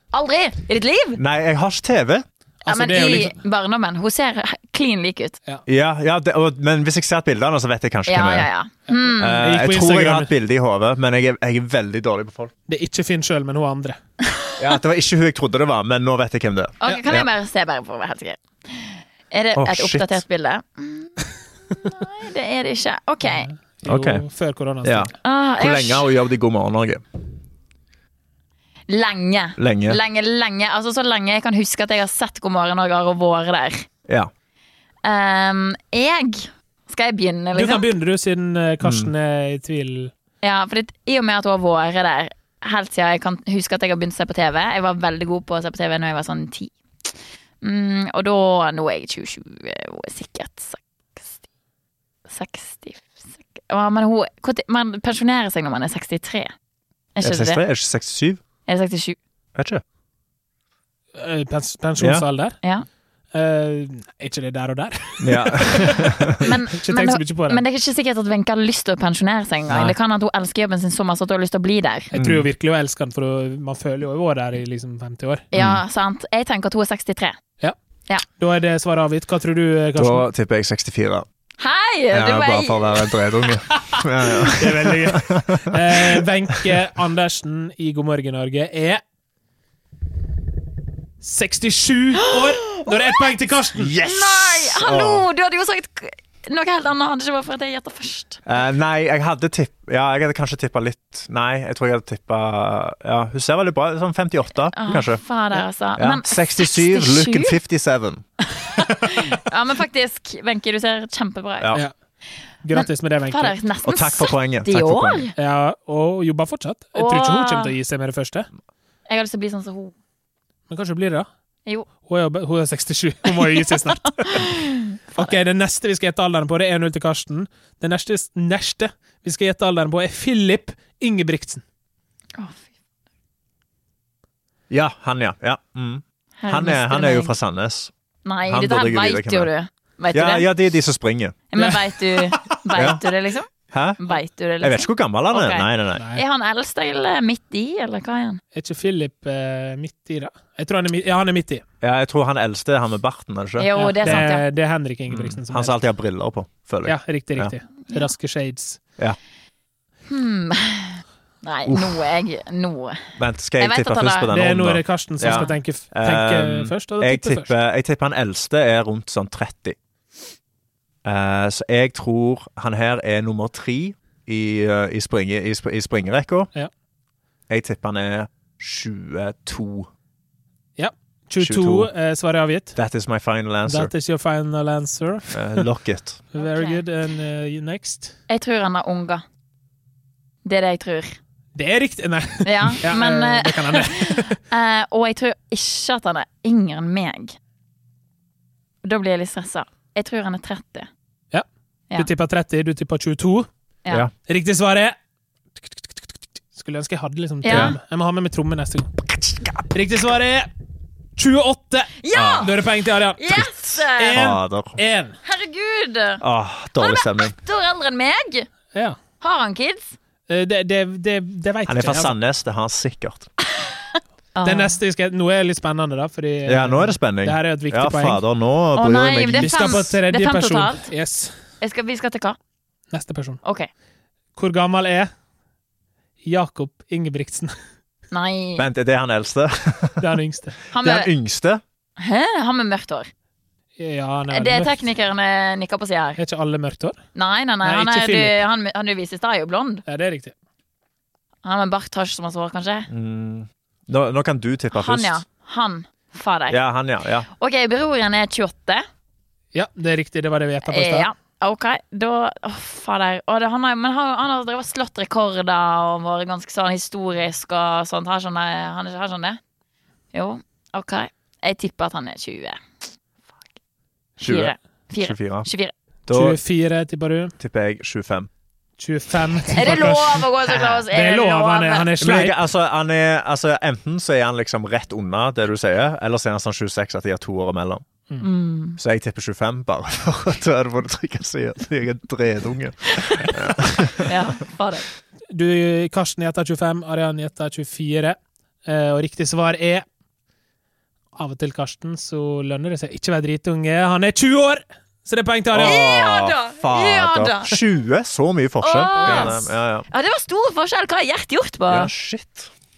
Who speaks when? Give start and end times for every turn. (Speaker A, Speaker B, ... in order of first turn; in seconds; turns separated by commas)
Speaker A: 0.1-1.2, Speaker B: 1.2-2.2, Speaker C: 2.6-3.4, Speaker A: 2.7-5.4, Speaker B: 5.7-8.5, Speaker A: 8.1-9.4, Speaker C: 8.9-10.3, Speaker B: 9.2-12.5, Speaker C: 12.7-14.0, Speaker B: 14.6-17.3, Speaker A: 16.8-21.1, Speaker B: 19.6-20.2, Speaker A: 21.7-23.5, Speaker C: 23.2-25.1, Speaker B: 23.9-24.2, Speaker B: 24.8-27.0, Speaker A: 25.2-26.1, Speaker A: 28.9-33.9, Speaker B: 29.6-30.0, Speaker A: 35.0-37.9, Speaker C: 37.5-40.1, Speaker B: 38.8-39.1, Speaker A: 40.4-47.1, Speaker A: 47.6-51.4, Speaker A: 52.3-56.5, Speaker A: 57.1-57.6, Speaker B: 57.2-58.4, Speaker A: 58.7-59.2, Speaker B: 59.5-59.8, Speaker C: 61.1-62.6, Speaker B: 62.0-62.2, Speaker C: 63.3-67.6, Speaker B: 65.2-66.4, Speaker A: 66.4-72.1, Speaker B: 69.7-69.9, Speaker C: 72.1-75.4, Speaker B: 72.1-72.5, Speaker A: 75.5-77.4, Speaker B: 75.5-75.8, Speaker C: 78.3-80.2, Speaker B: 80.0-81.2, Speaker A: 81.6-83.2, Speaker B: 82.1-86.7, Speaker C: 84.5-89.0, Speaker C: 91.2-93.9, Speaker A: 92.2-93.2, Speaker B: 93.8-95.2, Speaker A: 94.0-98.4, Speaker B: 98.5-105.2, Speaker A: 104.7-107.6, Speaker B: 106.0-108.2, Speaker A: 108.6-111.8, Speaker C: 112.6-113.5, Speaker A: 112.7-115.3, Speaker B: 113.8-115.3, Speaker C: 115.4-118.5, Speaker A: 116.9-117.7, Speaker A: 119.1-119.9, Speaker C: 120.7-121.3, Speaker C: 122.0-124.5, Speaker A: 123.3-125.3, Speaker C: 125.1-131.6, Speaker A: 132.4-132.6, Speaker B: 134.7-137.9, Speaker A: 136.4-137.3, Speaker A: 138.2-140.5, Speaker B: 138.5-139.5, Speaker B: 140.1-141.4, Speaker A: 141.5-148.4, Speaker C: 141.6-142.4, Speaker B: 142.7-143.0, Speaker B: 143.7-144.0, Speaker B: 144.6-146.0, Speaker C: 146.0-146.2, Speaker C: 148.5-151.6, Speaker B: 151.8-154.2, Speaker A: 153.6-154.4, Speaker C: 153.8-155.8, Speaker B: 155.1-157.5, Speaker C: 156.8-158.8, Speaker A: 160.1-163.1, Speaker B: 161.7-162.1, Speaker B: 163.2-169.8, Speaker A: 163.6-164.3, Speaker C: 164.3-167.5, Speaker A: 165.2-165.6, Speaker B: 171.0-176.5, Speaker B: 177.5-179.9, Speaker C: 180.8-182.8, Speaker B: 181.4-181.9, Speaker B: 182.8-183.9, Speaker C: 183.7-185.7, Speaker B: 185.3-186.2, Speaker C: 186.3-188.2, Speaker A: 186.4-186.8, Speaker A: 188.3-189.2, Speaker A: 190.4-191.2, Speaker C: 191.5-194.3, Speaker A: 192.4-197.3, Speaker A: 198.8-200.9, Speaker C: 201.3-203.5, Speaker C: 204.2-204.9, Speaker C: 206.5-208.9, Speaker A: 207.4-207.7, Speaker B: 207.5-207.7, Speaker B: 209.1-209.7, Speaker C: 209.7-210.5, Speaker C: 211.2-213.4, Speaker A: 212.0-212.5, Speaker B: 212.1-212.5, Speaker A: 213.2-214.2, Speaker B: 213.3-213.6, Speaker C: 214.0-215.2, Speaker B: 214.1-214.8, Speaker A: 215.2-216.2, Speaker B: 216.2-217.3, Speaker A: 216.8-218.5, Speaker A: 219.2-219.9, Speaker C: 220.3-222.1, Speaker B: 221.7-223.3, Speaker A: 223.6-224.8, Speaker C: 224.4-228.2, Speaker B: 226.4-229.8, Speaker A: 228.8-230.9, Speaker C: 229.3-231.3, Speaker A: 231.6-232.4, Speaker C: 232.9-233.4, Speaker A: 233.4-233.7, Speaker C: 234.3-235.1, Speaker C: 236.2-237.5, Speaker A: 238.1-238.6, Speaker B: 238.6-240.0, Speaker C: 240.0-240.6, Speaker A: 240.7-241.1, Speaker B: 240.8-241.6, Speaker A: 242.0-243.1, Speaker C: 243.8-244.7, Speaker A: 244.3-246.2, Speaker C: 246.2-247.0, Speaker A: 247.1-249.8, Speaker C: 247.6-248.4, Speaker C: 249.9-250.3, Speaker A: 251.4-252.9, Speaker B: 252.9-255.2, Speaker A: 254.7-256.6, Speaker B: 256.5-257.3, Speaker A: 257.4-258.8, Speaker C: 259.5-261.1, Speaker A: 260.7-269.4, Speaker A: 270.1-272.6, Speaker B: 274.2-275.5, Speaker A: 274.2-275.7, Speaker B: 276.1-276.4, Speaker C: 276.1-277.3, Speaker B: 277.4-278.3, Speaker C: 278.8-282.4, Speaker A: 279.5-281.9, Speaker B: 282.0-287.8, Speaker A: 288.2-288.8, Speaker B: 288.8-294.1, Speaker A: 294.0-294.9, Speaker C: 295.3-299.8, Speaker C: 301.1-305.8, Speaker B: 305.5-309.9, Speaker A: 305.6-307.6, Speaker A: 308.6-311.9, Speaker C: 309.0-309.4, Speaker B: 311.7-312.5